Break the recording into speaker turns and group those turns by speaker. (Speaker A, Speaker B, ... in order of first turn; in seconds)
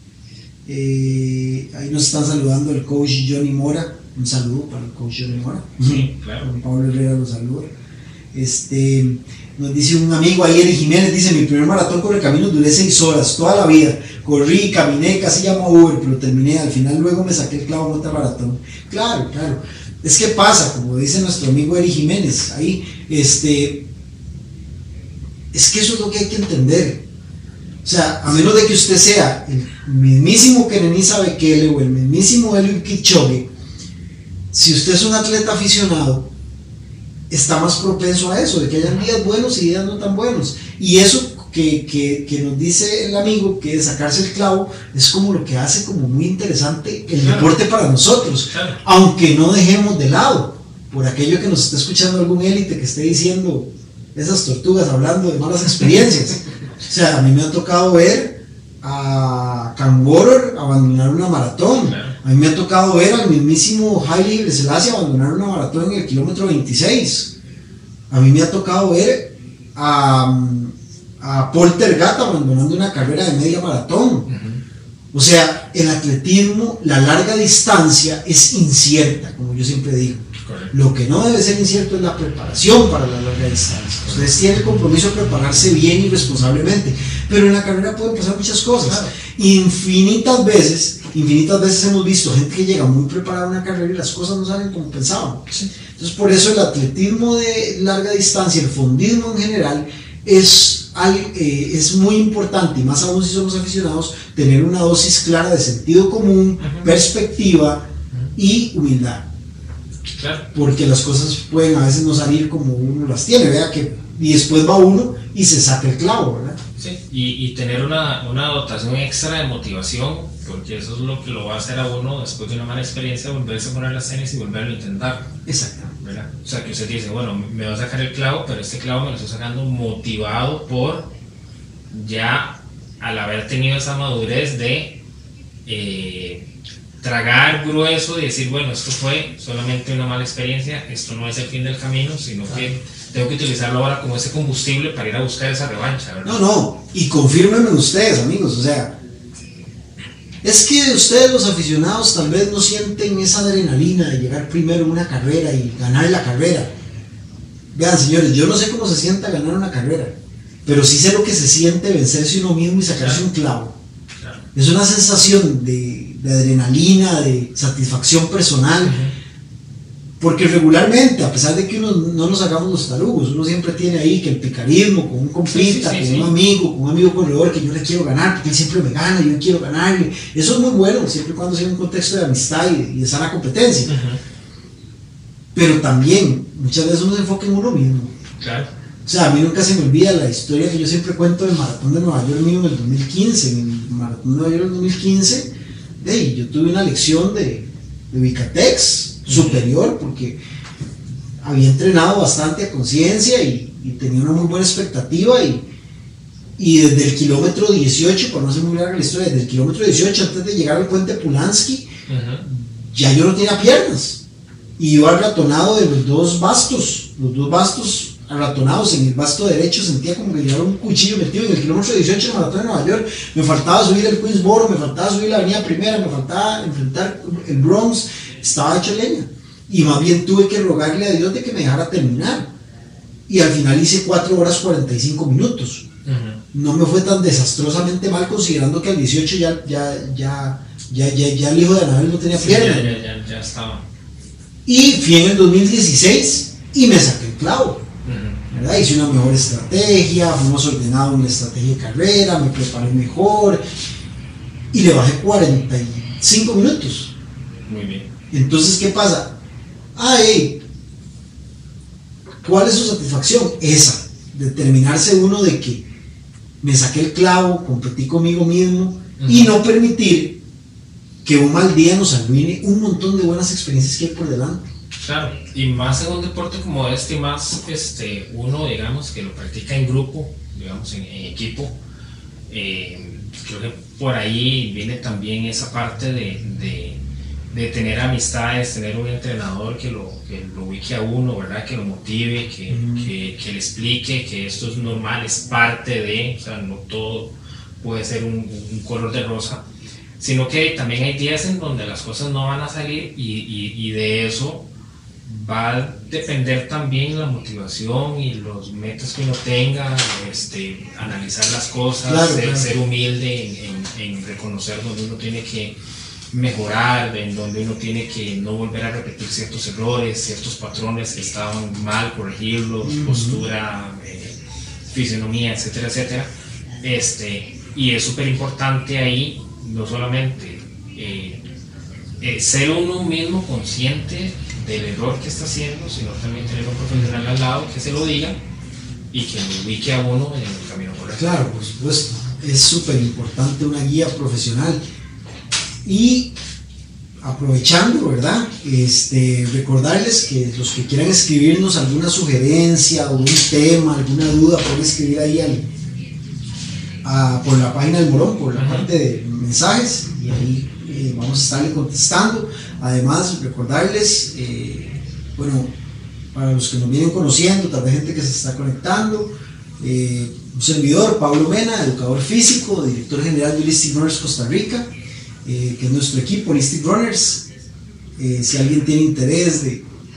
Speaker A: 0.7-7.7, 8.3-23.8, 25.5-27.0, 27.8-33.5, 34.5-36.3, 37.3-67.3, 68.1-74.3, 75.1-95.4, 96.0-107.8, 108.4-109.2, 110.5-116.6, 125.5-126.0, 146.2-148.9, 150.4-156.7, 157.7-160.1, 160.7-163.7, 164.6-169.0, 170.2-183.9, 185.6-188.1, 189.1-195.5, 196.0-200.4, 201.4-205.7, 206.6-211.9, 212.4-214.2, 214.8-232.5, 233.3-235.8, 236.5-242.9, 244.7-247.8, 248.5-253.6, 254.7-257.1, 258.3-259.3, 260.0-260.6, 262.4-265.8, 266.6-270.4, 271.2-274.7, 292.7-293.1, 312.1-312.7, 322.8-323.4, 341.2-344.8, 345.9-346.3, 347.2-355.7, 357.0-365.7, 366.3-369.3, 369.8-374.9, 375.4-377.4, 378.2-379.9
Speaker B: 5.8-6.5, 47.2-47.5, 48.5-48.8, 61.8-62.2, 74.3-74.6, 80.4-80.7, 84.0-84.3, 88.8-89.1, 106.6-106.9, 110.2-110.5, 116.8-125.3, 126.0-131.1, 131.9-135.0, 135.7-136.5, 137.0-146.5, 163.0-163.2, 164.2-164.4, 168.8-169.1, 175.5-176.3, 183.9-184.2, 188.4-188.7, 199.3-199.7, 212.1-212.4, 236.1-236.4, 242.3-243.8, 248.1-248.4, 257.7-258.1, 269.2-269.5, 275.0-281.8, 282.5-287.0, 287.5-299.6, 300.2-304.6, 305.3-315.8, 316.3-324.4, 324.9-326.3, 326.8-331.4, 332.2-338.4, 339.1-341.5, 358.6-358.9